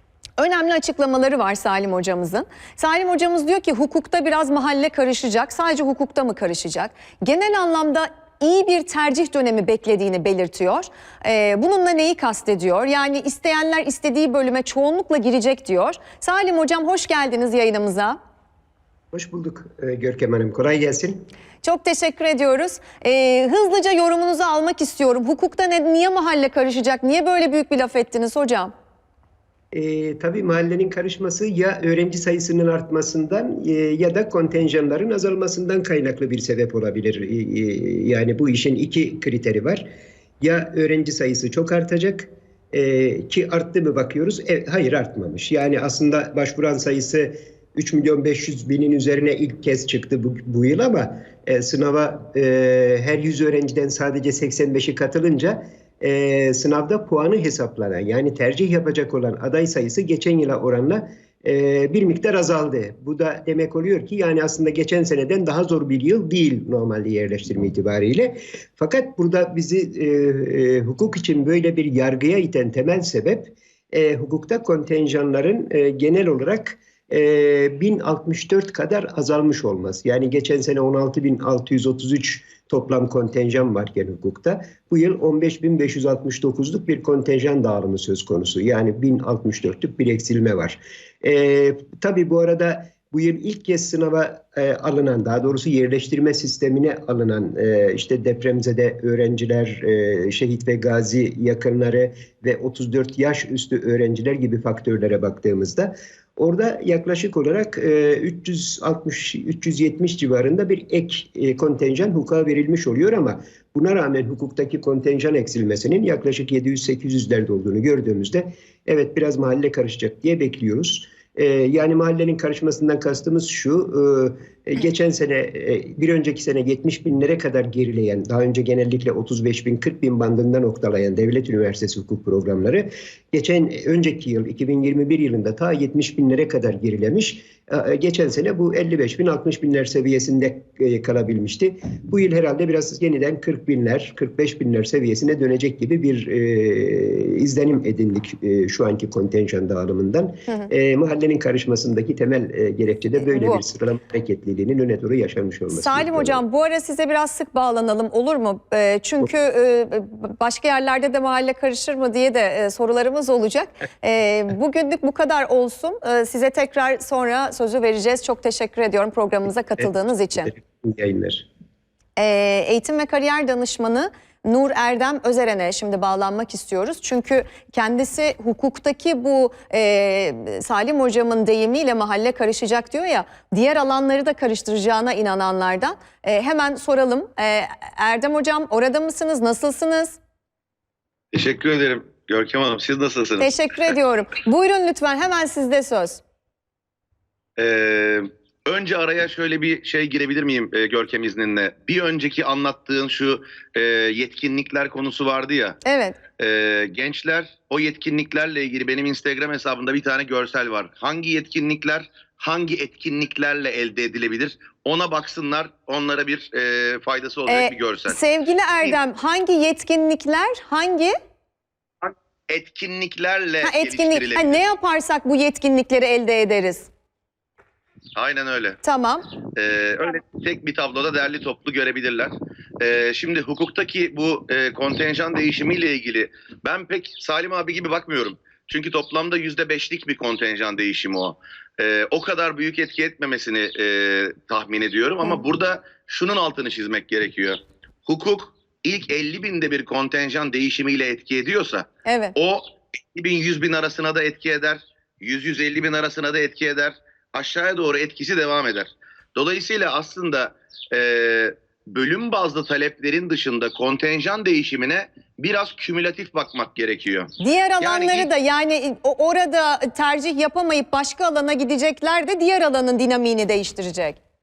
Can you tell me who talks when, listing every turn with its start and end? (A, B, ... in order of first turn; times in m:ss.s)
0:00.4-0:18.2 A
0:19.1-0:21.2 B
0:21.6-0:28.7 A
0:29.7-0:39.9 B
0:40.4-2:36.4 B
2:33.2-2:33.6 A
2:35.7-2:50.5 A
2:50.5-2:51.5 B
2:52.2-3:10.2 A
3:11.3-3:13.9 C
3:13.4-3:16.2 A
3:17.6-3:25.8 C
3:25.8-3:26.2 A
3:26.4-3:38.2 C
3:37.5-3:41.2 A
3:42.0-3:44.6 C
3:43.6-3:46.9 A
3:48.2-3:48.8 C
3:48.8-3:49.3 A
3:49.6-4:28.3 C
4:12.0-4:12.4 A
4:27.4-4:34.2 A